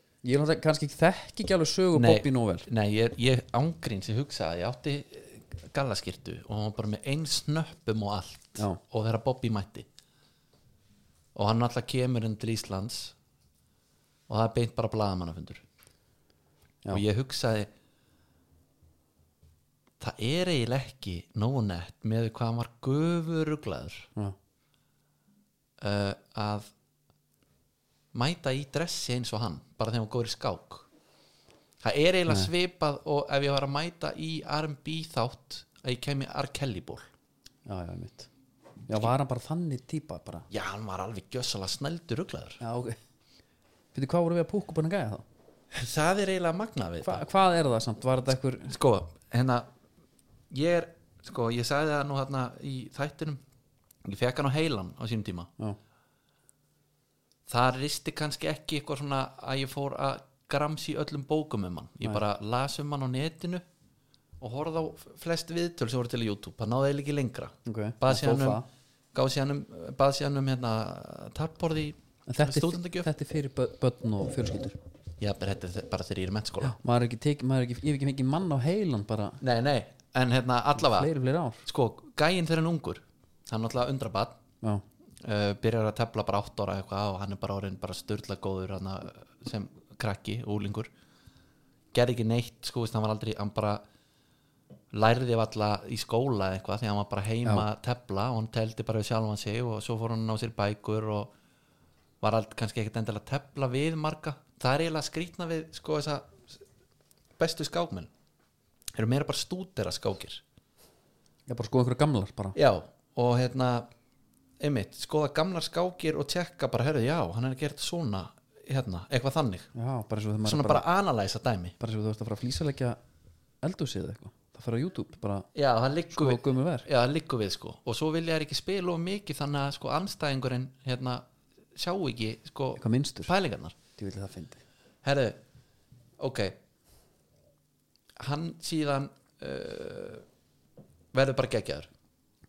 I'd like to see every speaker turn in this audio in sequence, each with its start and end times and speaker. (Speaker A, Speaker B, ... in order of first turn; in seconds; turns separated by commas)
Speaker A: 0.2-2.7, Speaker B: 1.9-9.8, Speaker B: 11.3-13.1, Speaker B: 14.3-15.6, Speaker B: 16.9-17.7, Speaker B: 20.0-24.1, Speaker B: 25.8-26.7, Speaker B: 28.1-30.9, Speaker B: 31.8-37.0, Speaker A: 37.6-38.3, Speaker A: 38.9-40.5, Speaker B: 40.5-42.6, Speaker A: 42.6-43.0, Speaker A: 43.9-45.2, Speaker B: 45.7-47.2, Speaker A: 47.0-48.7, Speaker B: 48.7-49.7, Speaker B: 50.5-53.4, Speaker B: 54.0-55.5, Speaker B: 57.5-63.6, Speaker B: 64.4-68.6, Speaker A: 67.6-68.6, Speaker B: 69.1-73.1, Speaker A: 72.3-74.8, Speaker B: 75.2-76.8, Speaker A: 76.6-79.4, Speaker B: 79.4-81.1, Speaker A: 80.8-81.6, Speaker B: 81.6-84.4, Speaker B: 85.2-90.9, Speaker B: 91.9-93.8, Speaker B: 94.9-101.3, Speaker B: 102.2-106.5, Speaker B: 107.4-108.1, Speaker B: 108.9-110.4, Speaker A: 111.5-112.5, Speaker B: 112.5-113.9, Speaker B: 114.6-119.7, Speaker A: 119.7-120.8, Speaker B: 120.4-121.7, Speaker A: 121.8-123.0, Speaker A: 123.6-125.5, Speaker B: 125.5-131.2, Speaker A: 126.1-126.9, Speaker B: 131.8-133.8, Speaker A: 132.8-133.3, Speaker A: 134.0-134.6, Speaker B: 135.0-135.4, Speaker B: 136.2-136.6, Speaker B: 138.2-140.2, Speaker B: 141.1-141.9